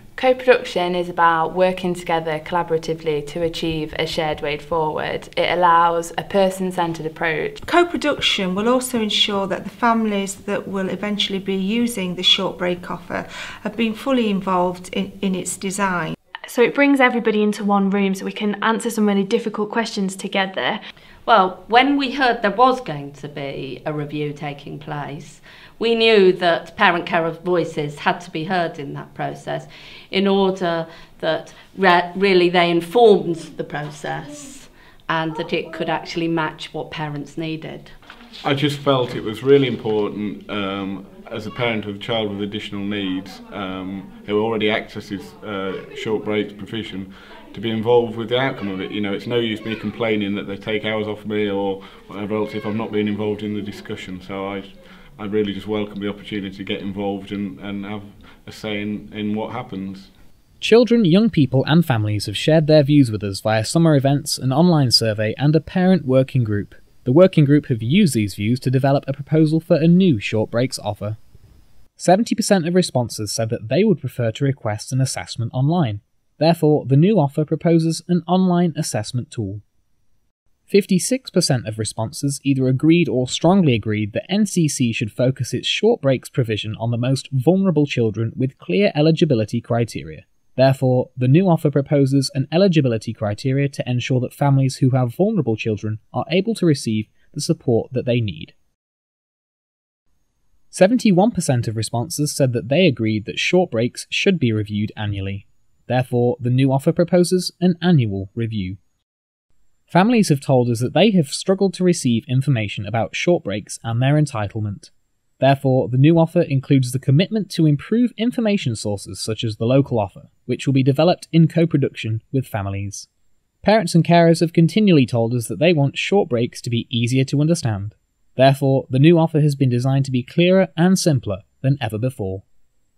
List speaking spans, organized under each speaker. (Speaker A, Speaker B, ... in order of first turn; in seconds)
Speaker A: 0.1-7.6
Speaker B: 7.6-16.1
Speaker C: 16.5-20.8
Speaker D: 21.2-38.0
Speaker E: 38.4-60.1
Speaker F: 60.6-71.2, 72.0-79.6, 80.7-98.5, 100.7-108.8, 109.9-123.1, 123.6-132.4